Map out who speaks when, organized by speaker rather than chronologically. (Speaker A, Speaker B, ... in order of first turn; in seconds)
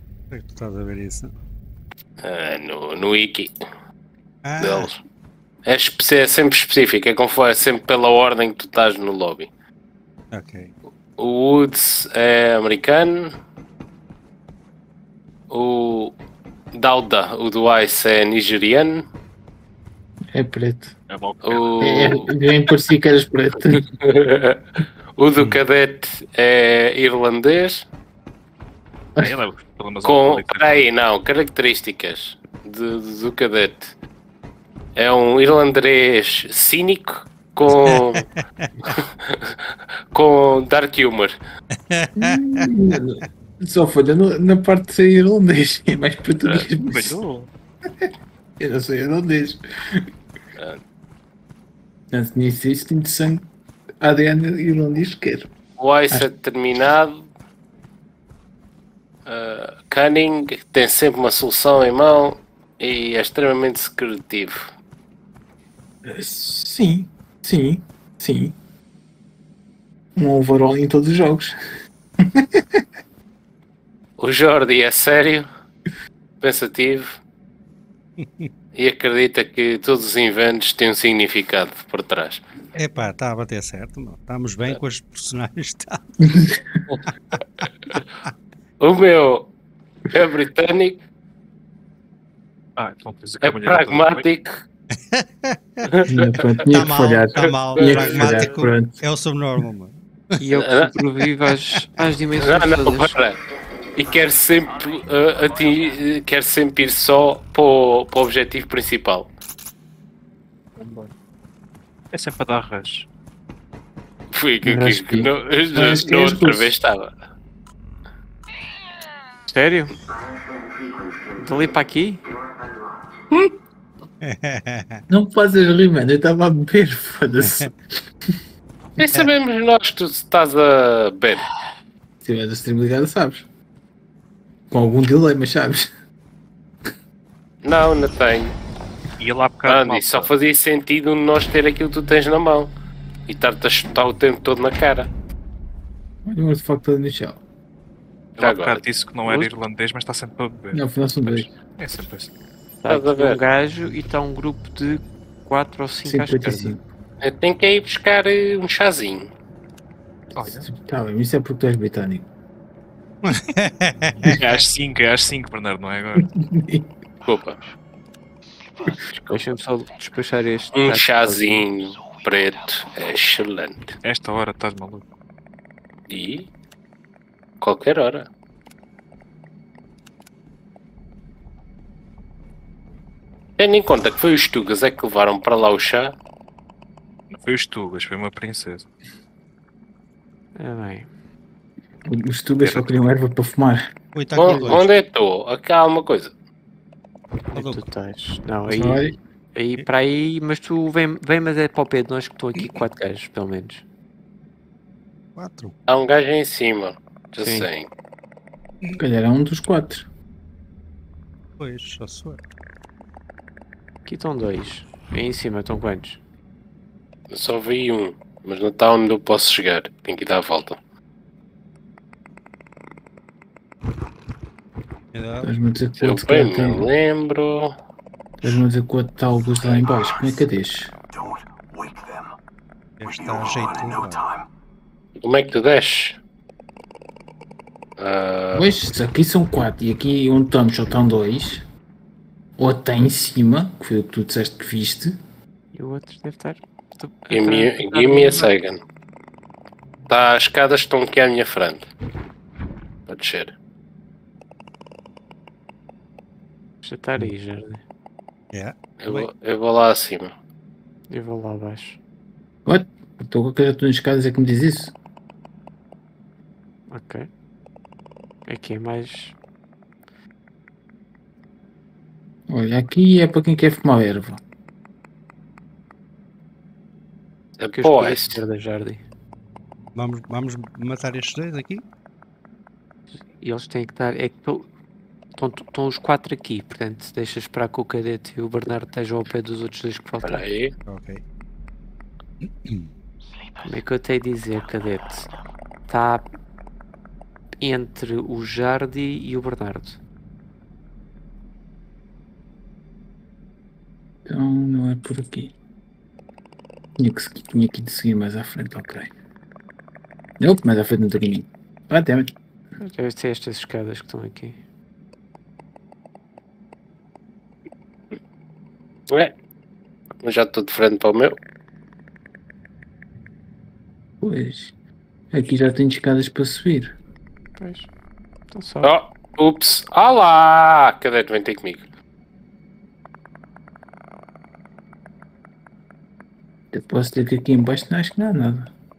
Speaker A: 0.3-1.3, 4.5-4.9, 10.3-10.7, 37.7-39.0, 41.8-43.0, 78.2-78.5, 82.8-86.3, 86.9-88.3, 94.9-95.8, 96.7-100.0, 124.2-125.0, 127.4-127.7, 163.2-164.6, 194.2-194.9, 197.6-197.8, 205.4-205.8, 211.6-212.4, 225.1-225.5, 233.0-234.3, 258.5-259.3, 279.9-281.8, 290.9-291.2, 292.4-292.9
Speaker B: 2.2-3.5, 4.6-5.0, 5.7-9.5, 11.2-13.3, 15.5-16.2, 16.7-19.1, 21.4-22.3, 24.0-24.6, 25.2-27.9, 30.0-33.9, 35.0-38.2, 38.9-41.4, 55.8-57.3, 59.3-64.7, 74.2-75.5, 76.4-77.2, 78.8-82.4, 88.8-89.5, 90.1-91.0, 93.4-94.6, 95.8-96.4, 97.4-98.4, 100.6-100.9, 102.4-103.4, 104.0-109.3, 114.3-117.1, 129.0-131.5, 137.6-138.6, 139.7-142.7, 143.3-145.1, 148.4-148.8, 152.9-153.4, 157.2-159.3, 167.3-167.6, 169.1-169.4, 170.7-173.9, 176.1-176.5, 177.6-178.3, 183.6-186.2, 194.3-196.3, 205.9-207.9, 217.3-220.8, 226.0-227.8, 235.2-236.2, 238.0-238.7, 247.3-248.8, 250.1-251.9, 253.1-253.5, 259.0-260.3, 277.6-278.4, 290.2-290.7, 320.2-321.4, 328.8-331.8
Speaker C: 20.3-20.9, 21.8-23.8, 42.2-47.2, 48.6-50.1, 52.1-53.5, 54.0-55.5, 66.0-68.5, 70.2-71.5, 72.2-72.8, 86.2-86.6, 96.1-99.0, 114.6-116.7, 125.1-127.7, 132.2-133.5, 134.7-135.9, 146.3-147.4, 150.7-151.5, 156.1-156.8, 160.4-162.3, 166.2-166.9, 192.1-193.9, 198.7-199.2, 209.0-210.1, 225.4-226.9, 228.4-230.9, 238.5-241.6, 242.6-245.2, 262.7-264.9, 272.5-274.4, 304.2-305.5, 307.0-309.1, 310.4-312.3, 324.2-324.7, 325.3-326.9, 336.7-338.7
Speaker D: 21.1-22.2, 29.2-30.9, 46.6-47.5, 92.8-94.2, 110.8-111.1, 112.1-113.1, 139.2-140.3, 148.4-152.3, 160.4-160.6, 164.2-166.3, 174.0-175.0, 187.4-188.9
Speaker E: 100.4-103.1, 119.5-120.0, 121.4-122.2, 149.3-149.5, 152.8-156.8, 169.3-171.6, 190.6-191.1, 197.5-203.8, 207.4-207.7, 214.1-216.2, 245.7-248.5, 256.8-257.8, 261.1-262.0, 266.9-267.3, 268.5-269.4, 277.8-279.0, 283.1-284.7, 285.4-290.4, 293.6-295.3, 295.9-296.3, 297.6-300.0, 312.8-314.6, 327.6-327.9, 328.5-329.0